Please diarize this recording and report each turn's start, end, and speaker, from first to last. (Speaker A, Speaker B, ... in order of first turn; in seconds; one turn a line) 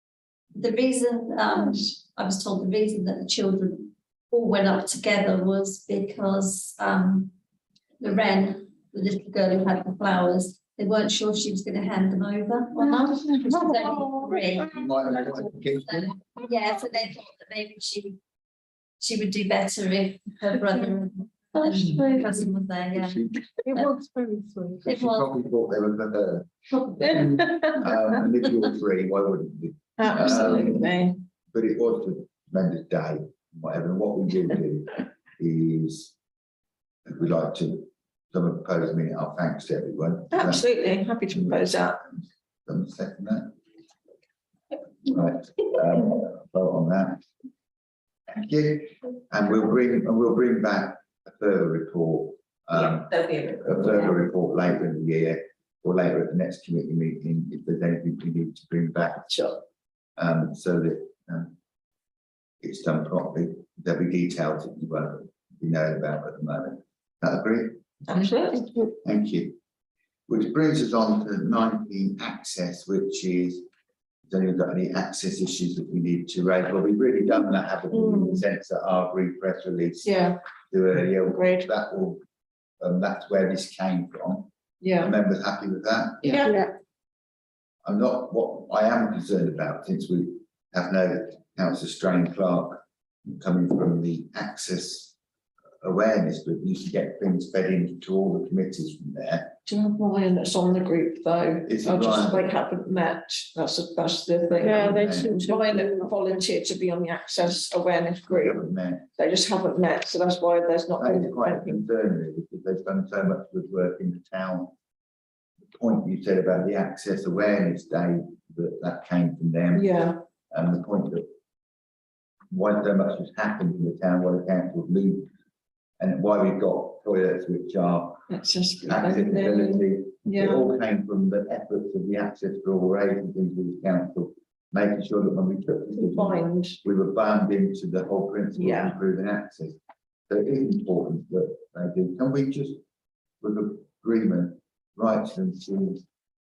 Speaker A: 0.6-7.3
Speaker A: 8.0-14.8
Speaker B: 12.8-14.6
Speaker C: 14.6-16.2
Speaker A: 15.8-18.2
Speaker A: 19.0-23.9
Speaker D: 21.6-22.3
Speaker C: 22.9-23.4
Speaker B: 23.6-24.8
Speaker A: 24.8-25.3
Speaker C: 24.8-30.9
Speaker D: 27.1-27.7
Speaker D: 30.0-31.2
Speaker C: 31.5-36.1
Speaker C: 37.1-40.6
Speaker D: 40.3-42.0
Speaker C: 41.3-41.7
Speaker C: 42.7-43.5
Speaker C: 45.0-47.2
Speaker C: 48.3-59.5
Speaker D: 52.7-54.1
Speaker D: 59.3-59.5
Speaker C: 60.2-61.5
Speaker C: 62.6-67.8
Speaker D: 68.1-68.7
Speaker C: 69.0-69.5
Speaker C: 70.3-73.6
Speaker C: 74.3-80.1
Speaker D: 77.9-78.4
Speaker D: 80.0-80.4
Speaker C: 80.7-82.2
Speaker D: 81.1-81.7
Speaker C: 82.8-86.3
Speaker D: 84.8-85.1
Speaker D: 86.2-86.5
Speaker C: 87.8-92.8
Speaker C: 93.4-95.2
Speaker C: 95.8-99.6
Speaker D: 99.7-108.6
Speaker C: 101.7-102.5
Speaker B: 104.5-106.3
Speaker C: 104.6-105.4
Speaker C: 108.3-109.1
Speaker D: 109.2-111.8
Speaker C: 111.0-114.7
Speaker C: 115.7-119.9
Speaker D: 119.7-120.2
Speaker C: 120.5-121.3
Speaker C: 122.5-125.3
Speaker C: 126.0-128.2
Speaker D: 128.3-130.7
Speaker C: 128.8-142.8
Speaker D: 136.0-136.8
Speaker D: 138.6-138.9
Speaker C: 143.4-146.0